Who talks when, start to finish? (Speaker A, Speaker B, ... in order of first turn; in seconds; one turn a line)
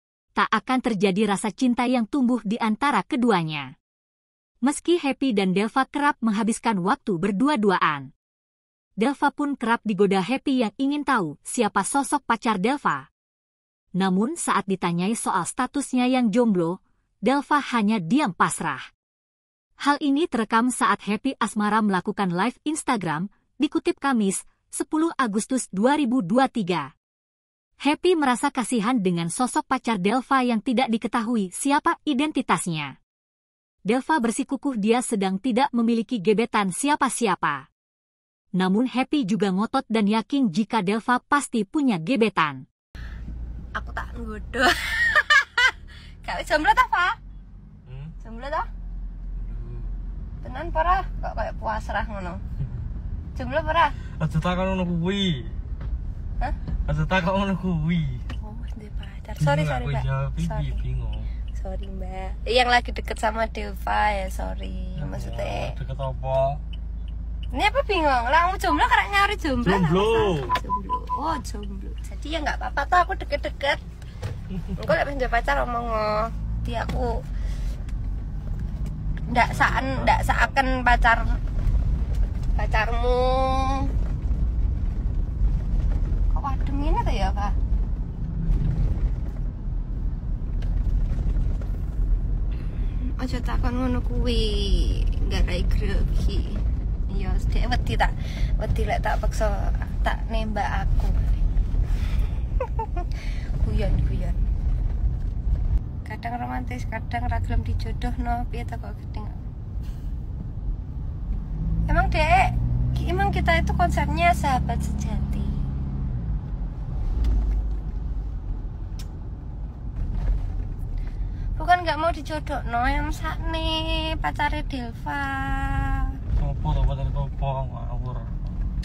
Speaker A: 0.3-3.7
Speaker A: 4.6-8.1
Speaker A: 9.0-13.1
Speaker A: 13.9-18.9
Speaker A: 19.8-26.9
Speaker A: 27.8-33.0
Speaker A: 33.9-37.6
Speaker A: 38.5-42.6
Speaker B: 43.7-45.7
Speaker B: 46.2-47.1
Speaker C: 47.9-48.1
Speaker B: 48.2-48.7
Speaker C: 49.4-49.9
Speaker B: 50.4-52.4
Speaker B: 53.4-54.0
Speaker C: 54.2-55.6
Speaker C: 56.8-58.2
Speaker B: 58.3-60.8
Speaker C: 59.4-61.3
Speaker B: 61.5-65.8
Speaker C: 65.0-66.6
Speaker B: 67.5-73.8
Speaker C: 69.6-70.5
Speaker B: 74.7-77.1
Speaker B: 79.3-81.4
Speaker C: 79.3-80.5
Speaker B: 82.5-83.9
Speaker B: 86.3-87.5
Speaker B: 93.2-96.6
Speaker B: 97.1-101.2
Speaker B: 103.6-104.4
Speaker B: 106.0-109.4
Speaker B: 111.9-115.6
Speaker B: 121.6-126.1
Speaker C: 126.3-128.5